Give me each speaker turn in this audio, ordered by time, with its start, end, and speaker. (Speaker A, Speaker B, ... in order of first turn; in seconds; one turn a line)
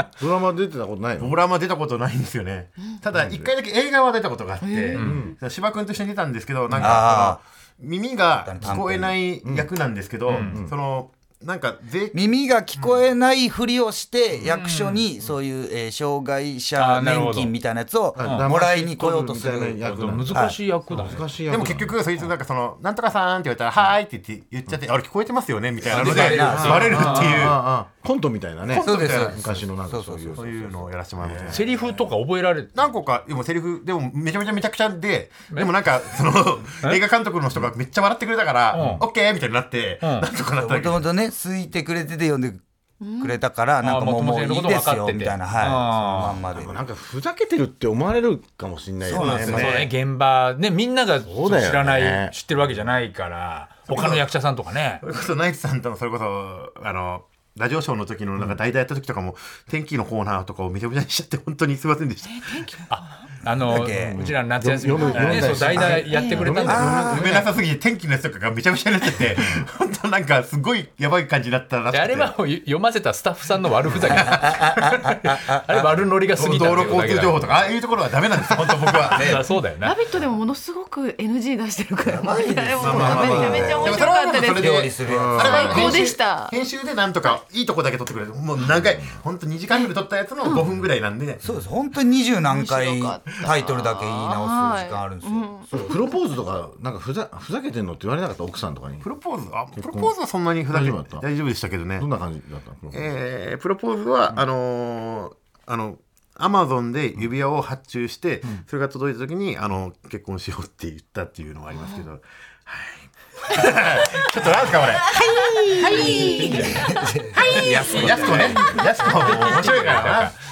Speaker A: 0.2-1.4
Speaker B: 1.2-12.2
Speaker A: 3.1-3.5
Speaker C: 4.6-5.0
Speaker D: 4.9-5.2
Speaker A: 5.0-5.3
Speaker E: 6.8-7.4
Speaker E: 8.3-9.2
Speaker A: 9.4-9.7
Speaker D: 10.3-10.6
Speaker A: 10.4-10.7
Speaker E: 12.1-20.6
Speaker D: 14.5-15.0
Speaker D: 16.8-17.5
Speaker A: 18.1-21.9
Speaker D: 18.2-18.4
Speaker D: 19.8-21.8
Speaker B: 21.5-27.6
Speaker E: 25.9-27.2
Speaker D: 25.9-27.5
Speaker A: 26.0-31.8
Speaker B: 28.7-29.5
Speaker E: 28.8-30.7
Speaker B: 30.3-31.7
Speaker D: 31.5-32.7
Speaker B: 32.7-41.1
Speaker D: 38.7-39.0
Speaker D: 40.0-40.3
Speaker E: 40.6-42.6
Speaker C: 43.0-43.4
Speaker E: 43.2-46.8
Speaker D: 43.8-46.4
Speaker A: 46.5-49.9
Speaker E: 49.0-49.8
Speaker D: 49.1-55.0
Speaker B: 49.2-49.9
Speaker A: 51.2-52.3
Speaker B: 53.9-54.2
Speaker B: 55.0-62.8
Speaker D: 62.9-67.0
Speaker E: 63.6-64.2
Speaker A: 63.7-67.5
Speaker C: 65.0-65.5
Speaker E: 65.7-66.0
Speaker C: 66.1-66.5
Speaker E: 66.6-67.5
Speaker B: 66.8-72.3
Speaker D: 71.9-77.6
Speaker B: 73.9-74.6
Speaker E: 74.1-76.0
Speaker B: 76.3-79.4
Speaker E: 79.0-79.4
Speaker D: 79.1-80.0
Speaker C: 79.8-86.5
Speaker E: 82.1-86.1
Speaker B: 82.8-91.4
Speaker A: 82.8-84.0
Speaker A: 85.0-85.8
Speaker A: 88.6-89.1
Speaker E: 91.4-95.9
Speaker C: 92.4-96.0
Speaker A: 95.7-99.1
Speaker B: 99.0-102.1
Speaker A: 99.7-100.1
Speaker A: 100.7-101.2
Speaker A: 102.0-103.1
Speaker B: 102.9-115.2
Speaker C: 115.1-118.9
Speaker E: 115.7-118.9
Speaker D: 116.2-116.7
Speaker D: 117.6-120.3
Speaker B: 117.9-120.3